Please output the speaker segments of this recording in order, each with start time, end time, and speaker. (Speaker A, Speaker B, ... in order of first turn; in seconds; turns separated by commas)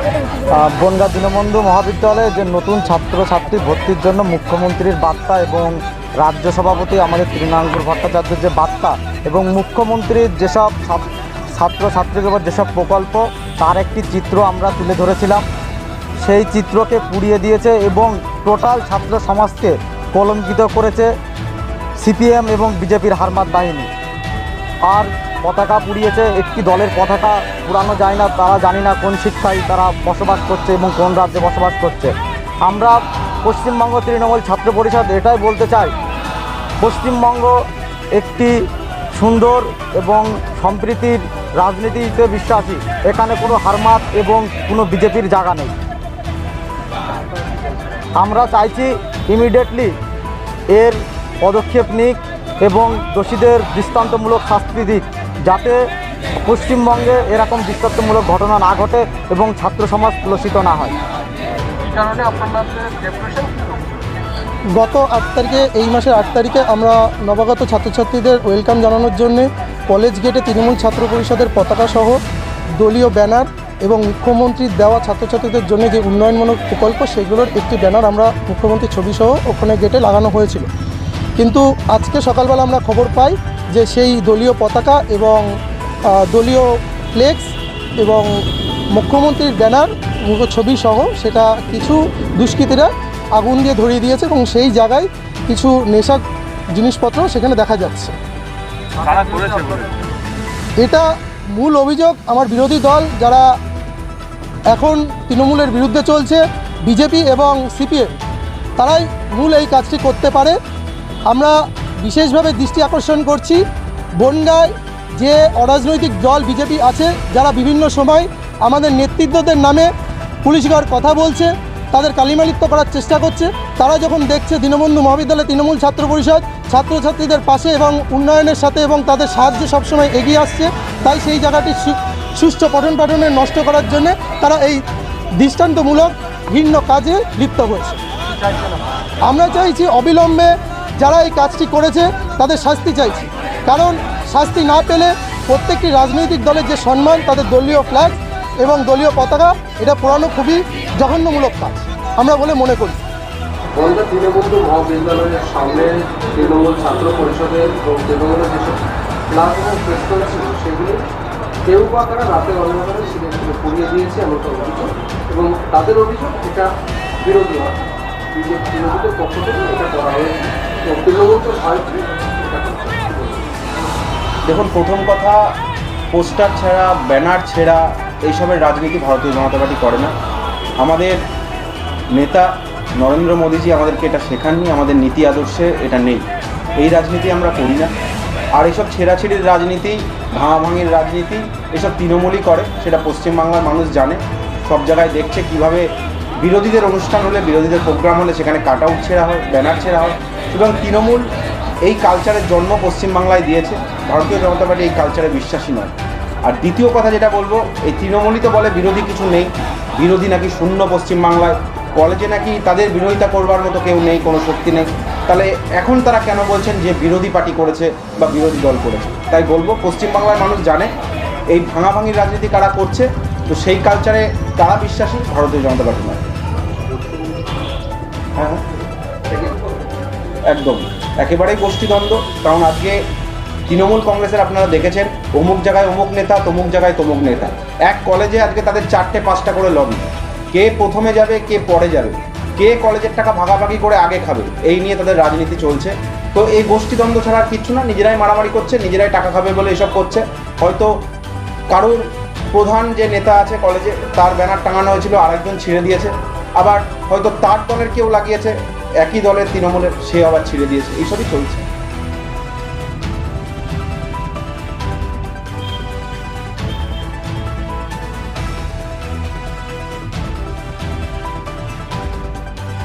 Speaker A: 0.3-15.4, Speaker A: 16.2-21.1, Speaker A: 22.0-23.9, Speaker A: 24.8-35.9, Speaker A: 36.8-45.7, Speaker A: 48.1-50.0, Speaker A: 50.7-55.8, Speaker A: 56.4-61.0, Speaker B: 61.8-64.0, Speaker C: 64.7-72.2, Speaker C: 72.8-80.7, Speaker C: 81.3-85.5, Speaker C: 86.1-98.2, Speaker B: 99.0-100.0, Speaker C: 100.8-103.5, Speaker C: 104.7-108.1, Speaker C: 108.8-110.6, Speaker C: 111.3-113.6, Speaker C: 114.2-119.9, Speaker C: 120.4-134.8, Speaker C: 135.4-138.0, Speaker B: 138.4-138.8, Speaker C: 139.2-153.0, Speaker B: 153.8-161.0, Speaker B: 161.6-166.7, Speaker B: 167.2-167.8, Speaker B: 168.3-173.5, Speaker D: 174.4-175.4, Speaker D: 176.1-180.1, Speaker D: 180.8-181.2, Speaker D: 182.1-187.9, Speaker D: 188.5-201.3, Speaker D: 201.8-205.9, Speaker D: 206.4-220.9, Speaker D: 221.5-226.3, Speaker B: 227.0-227.3, Speaker D: 228.3-228.6, Speaker D: 230.5-233.1, Speaker D: 233.7-251.0, Speaker D: 251.7-261.7